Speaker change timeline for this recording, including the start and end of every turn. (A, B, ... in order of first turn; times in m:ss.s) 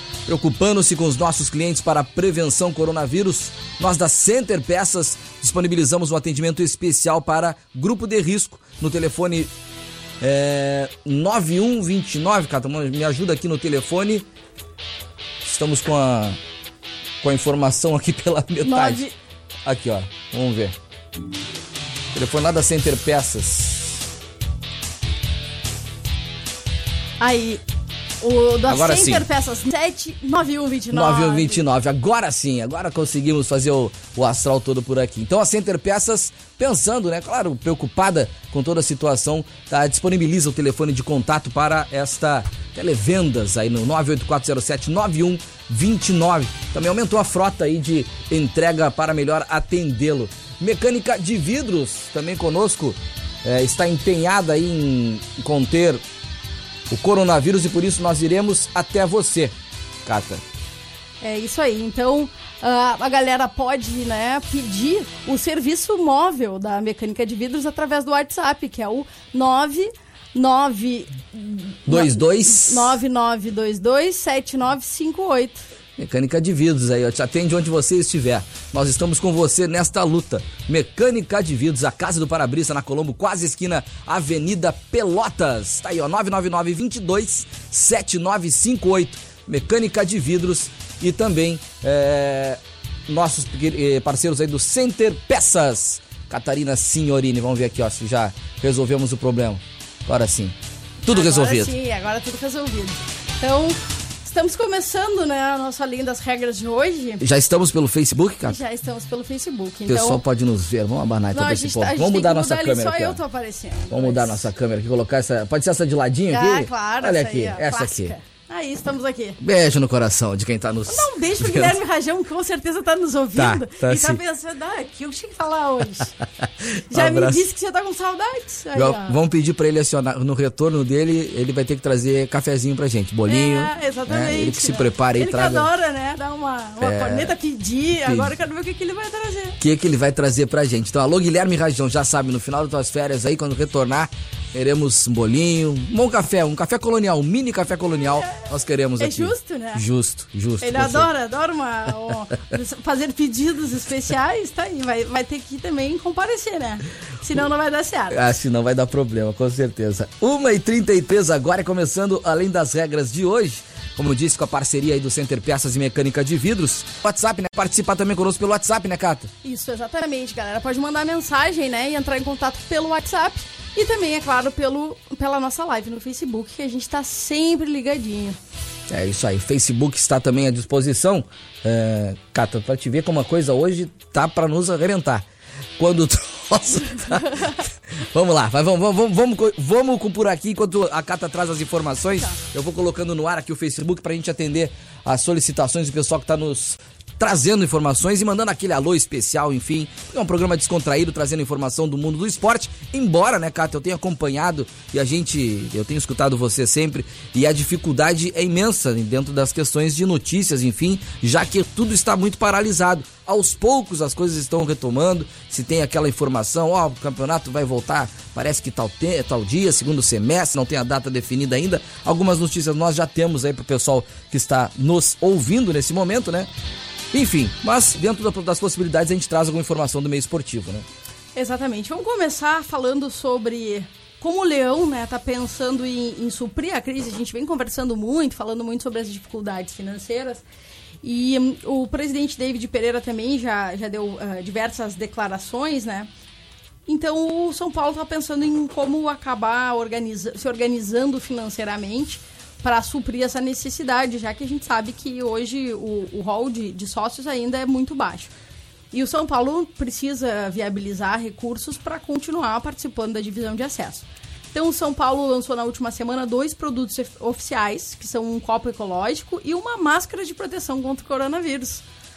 0:00.3-0:09.5 A
0:10.2-0:14.2 A
0:15.4-0:16.4 A
0:17.2-0:19.0 A
0:18.6-0:19.1 B
0:19.6-0:20.7 A
0:22.1-0:24.0 A
0:27.2-0:27.6 B
0:28.2-0:31.6 B
0:28.7-0:29.2 A
0:30.9-0:56.0 A
0:56.9-0:59.5 A
1:00.1-1:00.4 A
1:01.2-1:15.6 B
1:11.9-1:13.0 A
1:16.0-1:41.7 A
1:41.1-1:47.2 B
1:47.2-1:48.6 A
1:48.4-1:50.2 B
1:49.9-1:53.2 A
1:51.3-1:54.5 B
1:53.9-1:58.1 A
1:56.3-1:59.4 B
1:59.4-2:01.8 A
2:00.9-2:06.2 B
2:03.4-2:04.2 A
2:06.6-2:07.5 A
2:06.9-2:09.2 B
2:08.8-2:15.7 A
2:13.3-2:19.6 B
2:16.8-2:17.3 A
2:18.1-2:18.4 A
2:19.6-2:31.1 A
2:29.0-2:29.8 B
2:30.6-2:38.4 B
2:38.1-2:49.3 A
2:49.4-2:58.4 B
2:58.9-3:05.2 A
3:05.8-3:46.5 A
3:47.1-3:50.8 A
3:51.4-4:00.4 B
4:01.0-4:06.1 B
4:06.9-4:18.3 B
4:18.9-4:31.8 B